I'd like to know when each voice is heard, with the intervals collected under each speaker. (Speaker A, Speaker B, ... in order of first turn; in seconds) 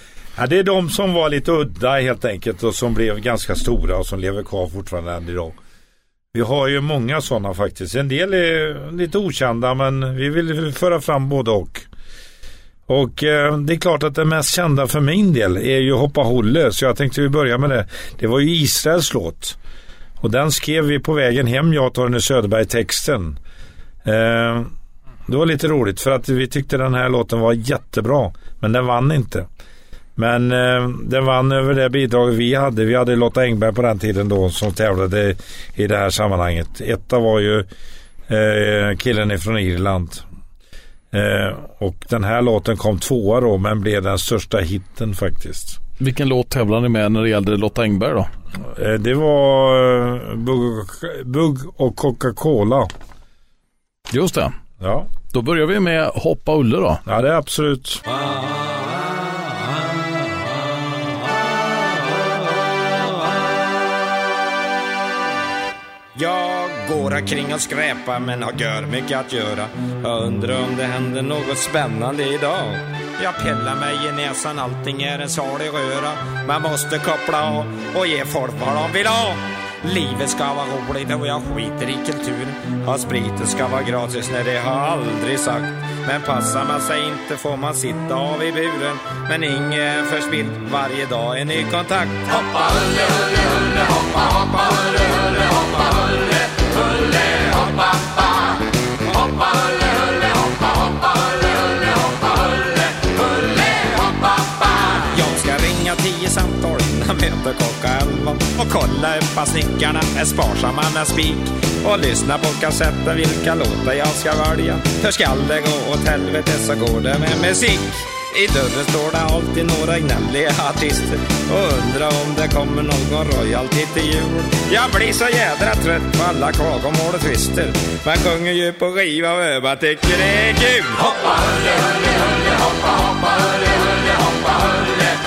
Speaker A: 0.4-5.6, 6.3-11.9, 12.9-19.6, 20.2-23.4, 24.0-24.7, 25.3-29.5, 30.2-37.7, 38.3-40.2, 41.1-45.8, 48.7-52.9, 54.8-55.1, 57.1-58.0
Speaker B: 46.0-48.3, 54.1-54.5, 55.3-57.0
Speaker C: 66.2-92.6, 105.1-131.2